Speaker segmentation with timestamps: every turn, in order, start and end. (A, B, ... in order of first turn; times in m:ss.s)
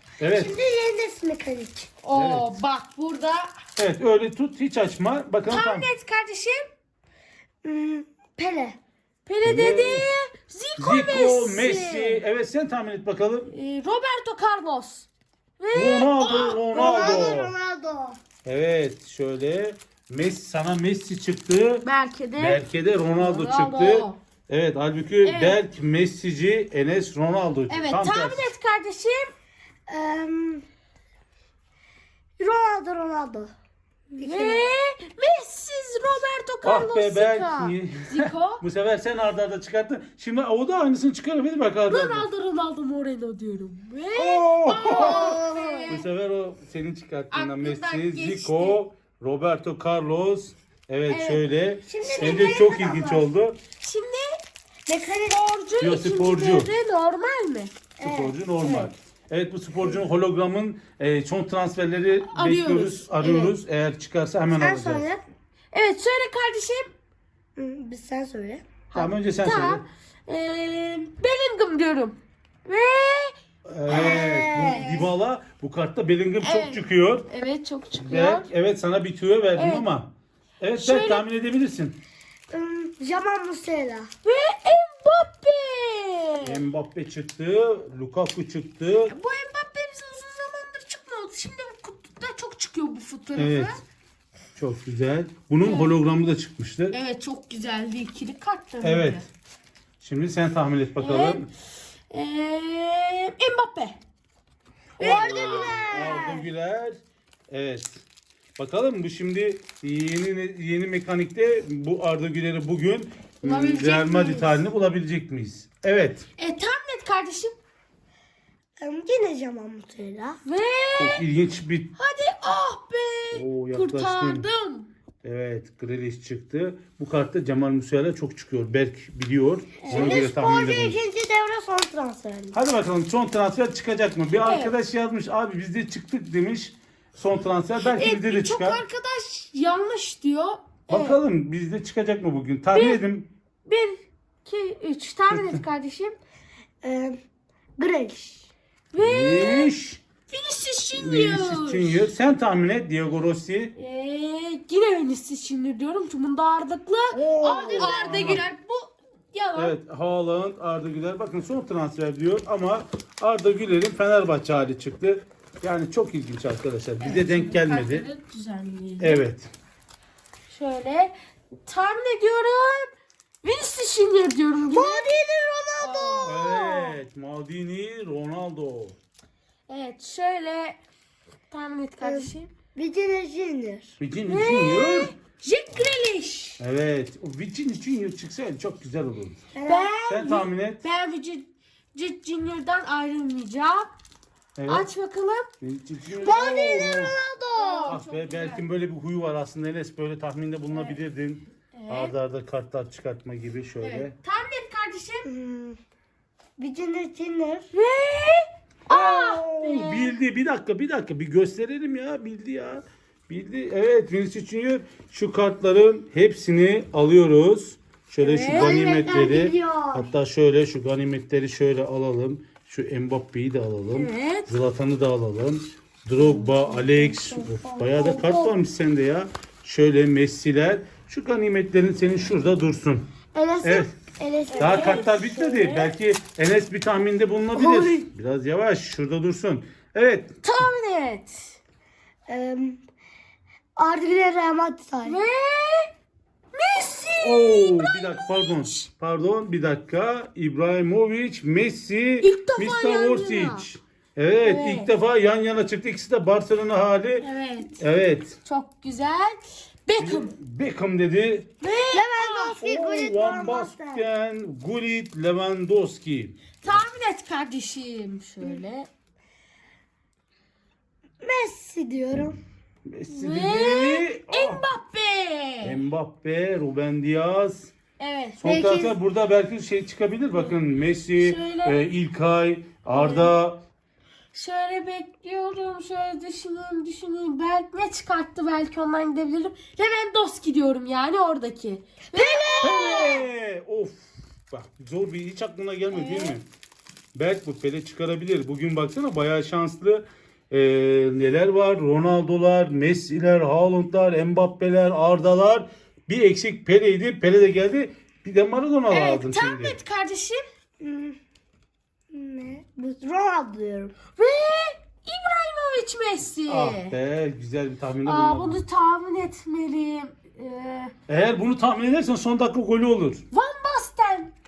0:00.2-0:00.5 A
0:00.3-0:01.9 B
0:02.0-0:03.5 C
0:02.1-0:02.6 A
0:03.8-0:05.9 A
0:05.5-0:06.7 C
0:07.6-0:08.8 B
0:09.2-0:12.2 C
0:09.4-0:10.1 A
0:10.8-0:13.5 A
0:13.5-0:15.1 C
0:15.6-0:17.4 C
0:15.7-0:17.5 A
0:16.7-0:18.2 B
0:18.4-0:21.8 A
0:21.8-0:24.2 C
0:22.4-0:28.5 A
0:25.2-0:25.6 C
0:27.7-0:29.3 C
0:29.9-0:30.6 B
0:32.4-0:33.5 B
0:34.1-0:34.7 B
0:34.2-0:38.6 C
0:36.6-0:42.3 A
0:41.9-0:46.0 C
0:44.1-0:53.6 A
0:44.8-0:46.0 B
0:47.3-0:48.8 C
0:51.1-0:51.4 C
0:51.9-0:53.2 B
0:52.0-0:52.6 C
0:53.8-0:54.4 C
0:54.9-0:55.4 B
0:55.2-0:57.7 C
0:55.8-0:56.7 A
0:58.0-0:58.9 B
0:58.0-1:05.1 A
1:02.2-1:03.4 C
1:03.2-1:03.5 B
1:04.5-1:05.2 B
1:05.7-1:06.9 C
1:07.6-1:08.6 B
1:08.9-1:13.3 C
1:08.9-1:09.8 A
1:13.7-1:17.3 A
1:13.9-1:15.0 B
1:13.9-1:15.1 C
1:16.4-1:18.5 C
1:18.0-1:22.0 A
1:19.6-1:19.8 C
1:20.7-1:21.2 C
1:22.5-1:24.1 B
1:24.2-1:26.6 C
1:26.4-1:29.1 A
1:29.0-1:33.8 C
1:33.3-1:33.8 A
1:34.6-1:37.0 A
1:35.6-1:36.0 C
1:36.9-1:39.2 C
1:38.8-1:39.2 A
1:40.0-1:41.5 A
1:41.0-1:41.5 C
1:42.1-1:44.0 C
1:45.0-1:45.8 C
1:45.0-1:46.5 B
1:45.0-1:48.0 A
1:48.6-1:56.2 A
1:53.4-1:54.6 C
1:56.4-1:57.5 C
1:58.8-2:00.4 B
2:00.4-2:01.2 C
2:01.0-2:01.9 A
2:02.0-2:04.9 C
2:03.3-2:04.4 A
2:05.2-2:11.0 A
2:09.8-2:10.2 C
2:09.9-2:12.6 B
2:12.5-2:18.8 A
2:14.4-2:14.7 C
2:17.8-2:21.2 C
2:20.9-2:23.3 A
2:22.7-2:23.0 C
2:23.6-2:26.2 C
2:25.3-2:25.6 A
2:26.8-2:27.2 B
2:27.8-2:28.5 B
2:28.9-2:29.7 C
2:29.0-2:30.0 A
2:30.3-2:32.0 C
2:30.9-2:33.7 A
2:33.8-2:39.8 C
2:37.1-2:38.2 B
2:37.3-2:38.4 A
2:39.5-2:48.1 A
2:47.0-2:49.2 C
2:49.0-2:49.5 A
2:50.5-2:51.1 C
2:51.6-2:52.9 C
2:53.4-2:55.1 C
2:54.7-2:56.9 B
2:55.8-2:56.3 C
2:56.2-2:59.0 A
2:59.7-3:00.8 C
3:01.5-3:02.5 C
3:02.0-3:04.0 B
3:04.0-3:05.1 A
3:04.2-3:06.6 C
3:06.6-3:09.4 A
3:09.5-3:09.9 B
3:09.6-3:13.9 C
3:10.0-3:10.8 A
3:14.6-3:14.9 A
3:14.7-3:15.5 C
3:15.6-3:17.1 A
3:16.2-3:18.0 B
3:17.5-3:18.6 C
3:17.9-3:24.1 A
3:20.7-3:21.0 C
3:21.7-3:22.1 C
3:23.8-3:25.2 C
3:25.2-3:25.8 B
3:26.6-3:27.7 B
3:27.7-3:30.1 C
3:28.9-3:29.7 B
3:29.6-3:53.0 A
3:38.2-3:39.3 C
3:38.5-3:40.1 B
3:43.9-3:44.5 C
3:46.2-3:48.6 B
3:53.3-3:55.0 B
3:53.6-3:53.9 A
3:54.5-3:55.9 C
3:54.6-4:00.4 A
3:57.5-3:58.0 B
4:00.4-4:01.6 C
4:02.3-4:02.8 B
4:03.8-4:05.2 B
4:05.0-4:05.9 C
4:06.5-4:08.9 C
4:07.2-4:18.4 A
4:12.2-4:13.6 C
4:14.4-4:14.9 C
4:17.2-4:17.8 C
4:18.4-4:20.3 C
4:20.0-4:21.5 A
4:21.6-4:22.6 C
4:21.9-4:24.0 B
4:22.6-4:26.8 A
4:26.6-4:28.9 C
4:31.2-4:32.4 B
4:32.9-4:34.6 A
4:33.1-4:35.8 C
4:35.6-4:37.7 A
4:38.0-4:38.4 C
4:38.4-4:43.6 A
4:38.4-4:39.0 B
4:41.2-4:41.8 C
4:42.9-4:43.3 C
4:44.3-4:53.2 C
4:52.1-4:53.1 B
4:52.6-4:56.4 A
4:55.9-4:56.4 C
4:57.1-5:09.8 A
5:08.9-5:10.4 C
5:10.8-5:11.2 B
5:12.1-5:13.9 B
5:14.2-5:16.9 C
5:16.5-5:18.6 A
5:18.0-5:20.9 C
5:21.1-5:23.2 A
5:23.3-5:24.3 C